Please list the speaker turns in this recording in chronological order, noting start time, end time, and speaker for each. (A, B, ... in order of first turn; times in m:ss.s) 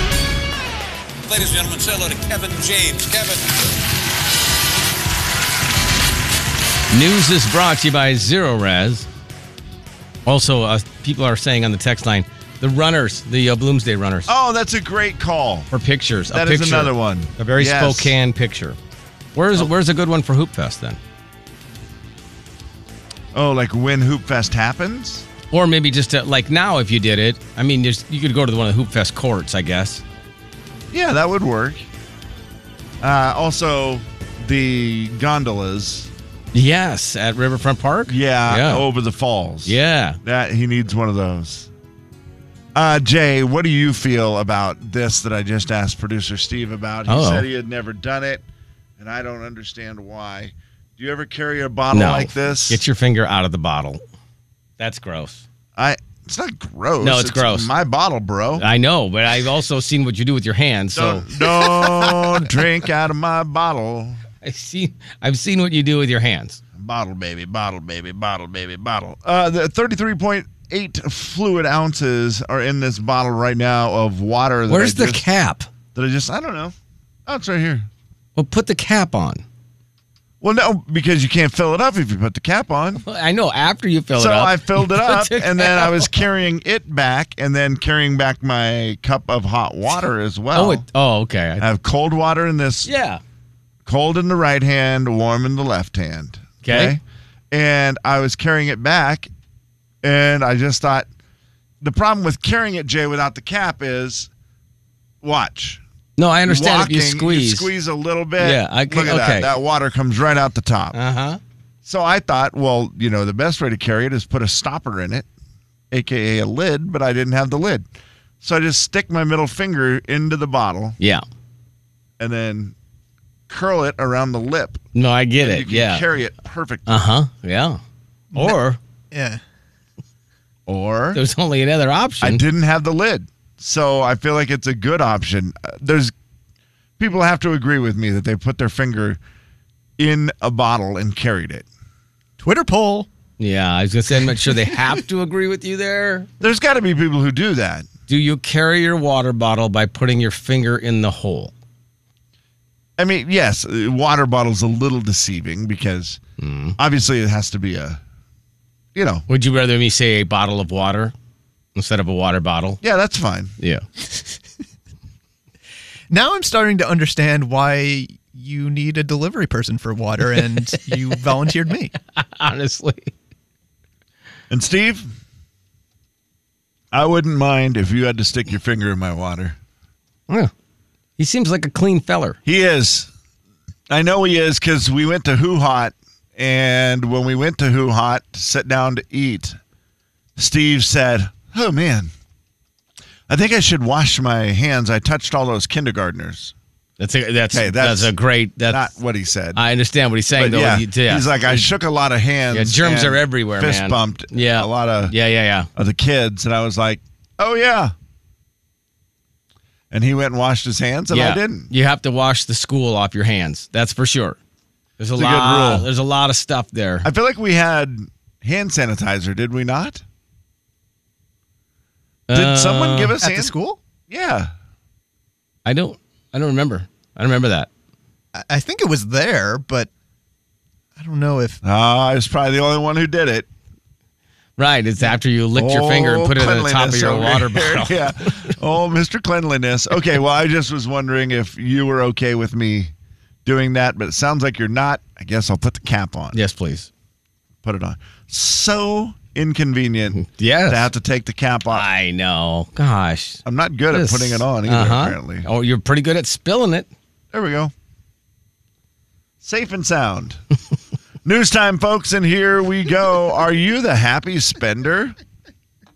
0:01.2-0:03.5 A
0:06.9-0:09.1 B
0:10.2-0:14.3 B
0:14.3-0:15.7 C
0:15.7-0:18.8 B
0:16.3-0:18.1 C
0:19.3-0:21.0 B
0:23.3-0:25.3 C
0:25.5-0:30.0 B
0:30.9-0:31.8 C
0:33.0-0:36.1 C
0:36.5-0:38.8 B
0:38.1-0:41.7 C
0:39.6-0:40.2 B
0:42.7-0:48.4 C
0:47.1-0:47.5 B
0:49.0-0:52.8 C
0:51.9-0:54.0 B
0:54.8-0:55.4 B
0:55.8-0:58.6 C
0:57.0-0:57.7 B
0:58.6-1:01.3 B
1:00.9-1:04.2 C
1:04.4-1:06.6 B
1:06.8-1:15.2 C
1:14.7-1:15.7 B
1:15.9-1:16.7 C
1:17.2-1:17.9 C
1:18.4-1:19.4 B
1:20.4-1:23.0 C
1:23.0-1:26.1 B
1:24.1-1:30.8 C
1:30.5-1:31.6 B
1:31.6-1:32.9 C
1:32.8-1:33.2 B
1:33.8-1:37.0 C
1:36.6-1:37.0 B
1:37.5-1:39.3 C
1:40.0-1:41.1 C
1:41.8-1:44.3 C
1:45.2-1:45.8 C
1:46.2-1:47.7 B
1:46.4-1:51.0 C
1:48.4-1:49.5 B
1:50.9-1:51.4 B
1:51.8-1:55.3 C
1:55.9-1:57.9 C
1:58.4-2:01.0 C
2:02.2-2:02.7 C
2:03.5-2:04.8 C
2:04.9-2:06.0 B
2:05.4-2:06.9 C
2:06.9-2:07.8 B
2:08.3-2:08.8 B
2:09.1-2:09.4 D
2:10.7-2:11.2 C
2:11.1-2:12.4 B
2:12.2-2:16.1 C
2:17.0-2:19.2 C
2:20.0-2:21.6 C
2:22.4-2:23.1 D
2:23.4-2:26.3 B
2:26.4-2:27.9 C
2:28.1-2:31.5 B
2:33.0-2:36.2 C
2:36.4-2:36.8 B
2:36.8-2:38.0 C
2:38.9-2:39.2 C
2:39.3-2:41.1 B
2:41.7-2:42.8 B
2:42.8-2:43.5 C
2:46.1-2:51.9 D
2:52.1-2:53.1 B
2:54.5-2:55.1 C
2:56.9-2:59.6 C
3:01.2-3:02.4 B
3:02.4-3:03.1 C
3:03.9-3:09.6 C
3:10.4-3:12.1 C
3:13.3-3:16.5 C
3:17.0-3:18.9 B
3:17.5-3:18.1 C
3:18.6-3:19.6 C
3:19.5-3:21.7 B
3:20.3-3:25.1 C
3:22.5-3:25.7 B
3:25.7-3:27.9 C
3:29.9-3:31.7 C
3:31.1-3:34.4 B
3:35.0-3:37.1 B
3:35.2-3:35.9 C
3:37.0-3:40.0 C
3:42.3-3:43.2 B
3:42.3-3:43.5 C
3:43.2-3:43.8 D
3:44.1-3:44.5 C
3:45.6-3:47.7 B
3:48.3-3:49.9 D
3:51.0-3:51.6 D
3:51.6-3:53.5 C
3:54.6-3:58.5 B
3:55.5-4:02.9 C
4:03.4-4:06.4 C
4:06.3-4:06.9 B
4:07.6-4:11.8 C
4:10.1-4:10.9 B
4:11.7-4:16.9 B
4:13.4-4:15.4 C
4:17.3-4:17.7 C
4:19.4-4:20.4 C
4:21.2-4:25.2 C